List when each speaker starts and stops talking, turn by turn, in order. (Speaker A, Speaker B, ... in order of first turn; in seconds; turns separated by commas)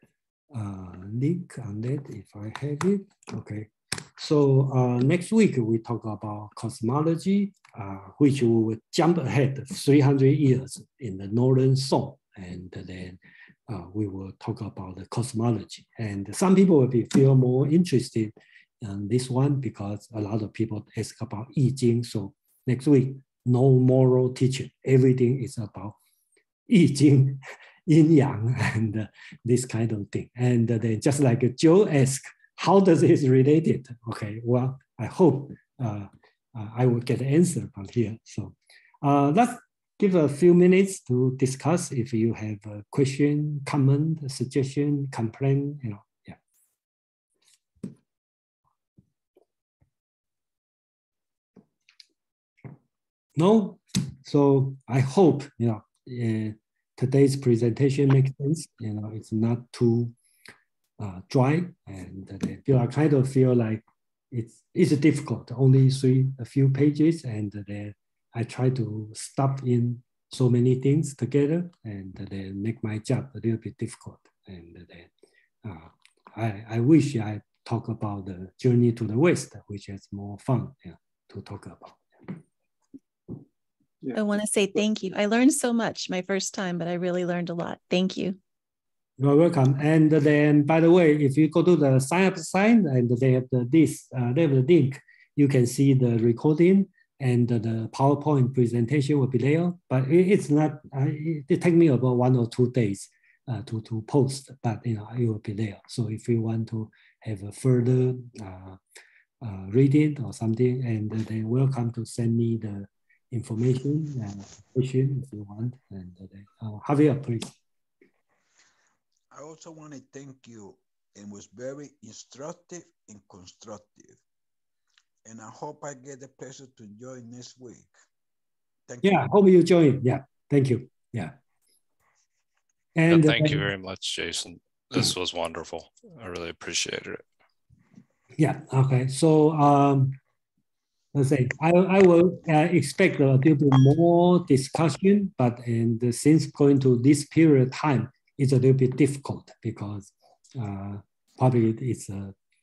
Speaker A: 0.5-25.9, Speaker A: 26.7-46.4, Speaker A: 53.4-60.1, Speaker A: 61.0-75.1, Speaker A: 75.6-82.4, Speaker B: 84.1-88.4, Speaker A: 89.2-108.8, Speaker A: 109.4-117.6, Speaker C: 119.3-124.2, Speaker C: 125.2-127.9, Speaker C: 128.9-129.2, Speaker A: 129.0-131.3, Speaker A: 132.9-133.7, Speaker D: 133.1-137.2, Speaker A: 138.4-140.2, Speaker A: 141.1-152.3